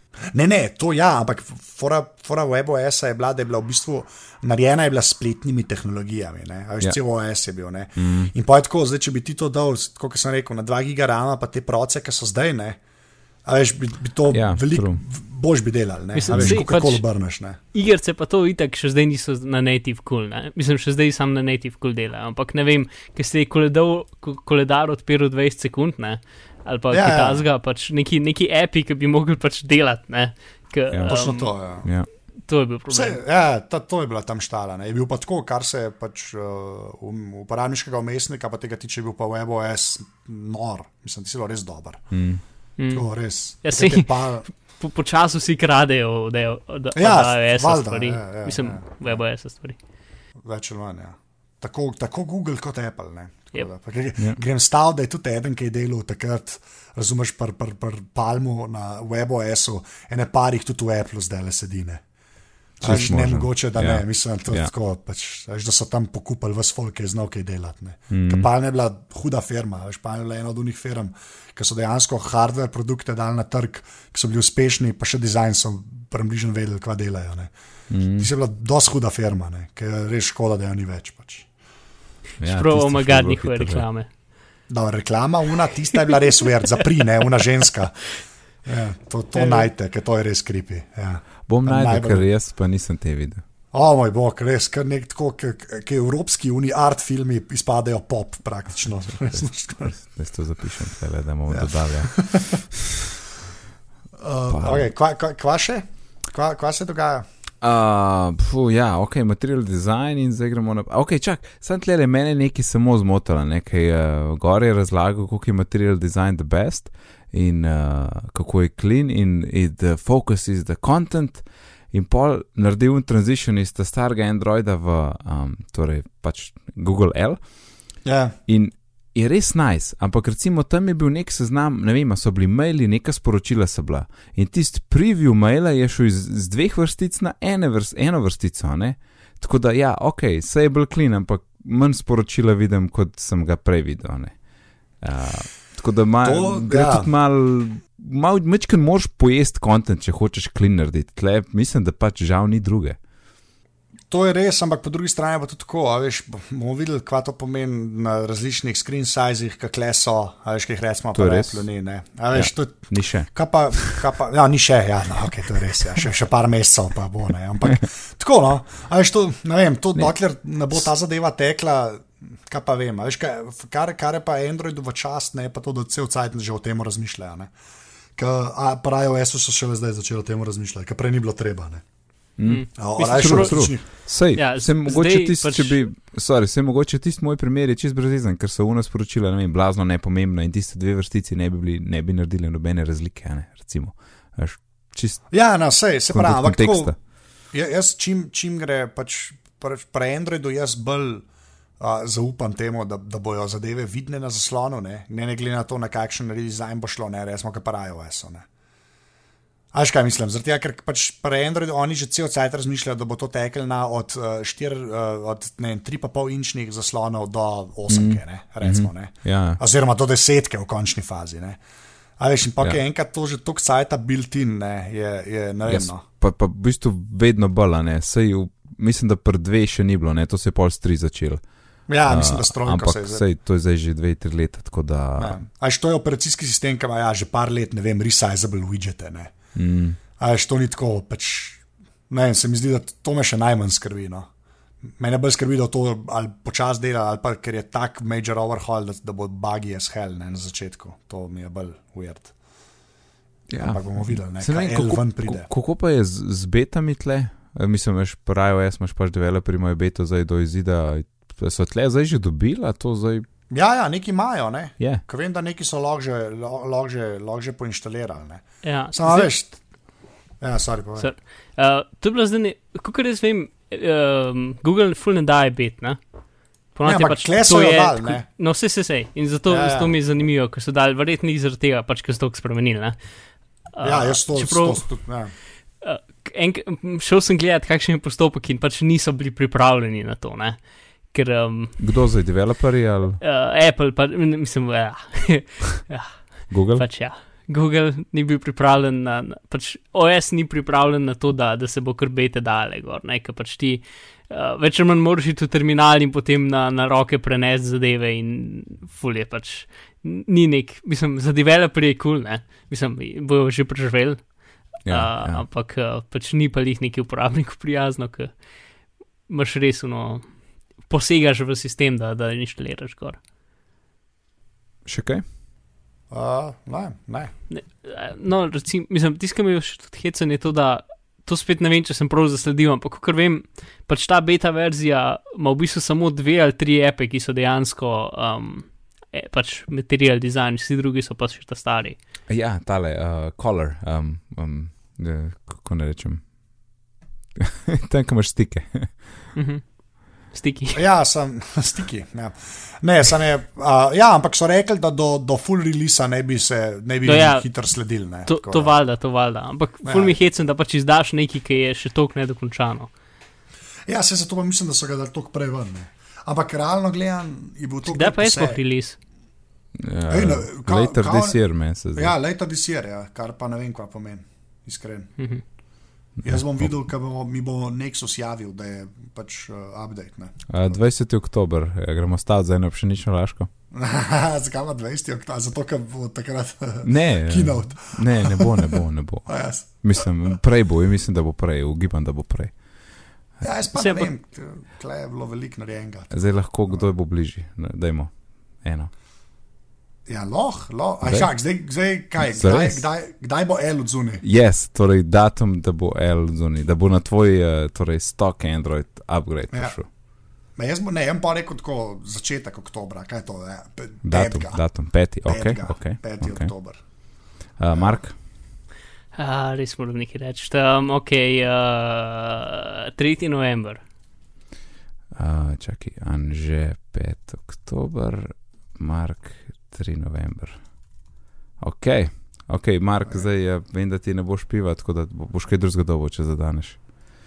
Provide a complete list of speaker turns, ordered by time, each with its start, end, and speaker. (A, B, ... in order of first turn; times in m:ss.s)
0:00.3-0:12.8 A
0:08.0-0:08.3 B
0:13.4-0:17.6 A
0:14.3-0:15.0 B
0:16.1-0:17.0 C
0:16.3-0:16.6 B
0:17.7-0:31.5 C
0:26.9-0:27.4 A
0:30.9-0:31.3 B
0:31.1-0:31.9 A
0:31.8-0:32.1 B
0:32.4-0:33.2 C
0:32.9-0:42.2 A
0:42.1-0:42.4 B
0:42.8-0:43.1 C
0:42.9-0:44.5 A
0:43.6-0:49.8 C
0:47.0-0:49.2 A
0:50.4-1:02.0 A
1:02.8-1:17.5 A
1:02.8-1:04.7 B
1:02.9-1:03.1 C
1:08.1-1:08.5 B
1:17.9-1:18.3 B
1:18.2-1:21.5 A
1:22.4-1:23.9 B
1:22.4-1:24.1 C
1:24.7-1:32.3 A
1:29.4-1:29.7 C
1:31.5-1:33.4 B
1:33.7-1:40.0 A
1:39.3-1:42.8 B
1:41.5-1:42.6 A
1:44.2-1:47.3 A
1:44.5-1:44.9 B
1:47.6-2:07.4 B
2:08.0-2:08.4 A
2:08.5-2:33.0 B
2:26.2-2:27.1 A
2:34.1-2:57.5 A
2:41.2-2:41.7 B
2:42.3-2:44.0 B
2:58.2-3:01.8 A
3:02.4-3:15.5 B
3:02.4-3:05.8 C
3:02.8-3:03.8 A
3:15.3-3:21.3 A
3:16.1-3:17.0 B
3:21.8-3:28.5 A
3:29.7-3:41.6 A
3:37.9-3:39.6 B
3:42.2-3:46.0 A
3:45.7-3:55.4 B
3:51.9-3:53.2 A
3:55.2-3:59.4 A
3:59.6-4:00.0 B
4:00.2-4:04.3 A
4:05.0-4:12.3 A
4:13.5-4:23.3 B
4:13.6-4:15.5 A
4:23.5-4:29.6 A
4:24.8-4:25.0 B
4:28.6-4:29.4 C
4:30.4-4:31.1 A
4:31.0-4:36.0 C
4:36.7-4:43.0 C
4:36.8-4:38.3 A
4:39.5-4:40.0 A
4:43.7-4:45.0 C
4:43.8-4:45.3 A
4:45.8-4:50.6 C
4:51.1-4:51.8 C
4:51.8-4:53.2 B
4:53.2-5:18.4 C
4:56.5-4:56.9 B
5:14.8-5:15.4 B
5:19.3-5:20.3 C
5:20.8-5:23.2 C
5:24.8-5:25.2 B
5:26.1-5:27.3 A
5:27.5-5:42.0 C
5:42.3-5:46.8 B
5:47.4-5:49.3 B
5:49.4-5:50.8 C
5:50.7-5:58.8 A
5:57.0-5:57.5 C
5:58.3-6:02.9 C
5:59.8-6:00.2 A
6:03.9-6:08.6 A
6:07.9-6:09.0 C
6:09.8-6:12.1 B
6:10.1-6:11.4 A
6:11.9-6:15.2 A
6:15.2-6:15.4 C
6:16.2-6:16.7 B
6:16.2-6:20.8 A
6:20.5-6:23.5 B
6:23.7-6:30.4 A
6:26.8-6:33.1 B
6:33.4-6:36.9 A
6:33.8-6:34.1 C
6:36.1-6:38.9 B
6:40.1-6:44.2 A
6:41.0-6:41.6 B
6:42.2-6:42.8 B
6:44.2-6:49.9 B
6:49.5-6:49.8 A
6:50.5-6:56.8 A
6:54.0-6:56.5 B
6:57.6-6:58.2 B
6:57.7-6:58.0 A
6:59.2-7:03.8 C
7:05.2-7:16.9 B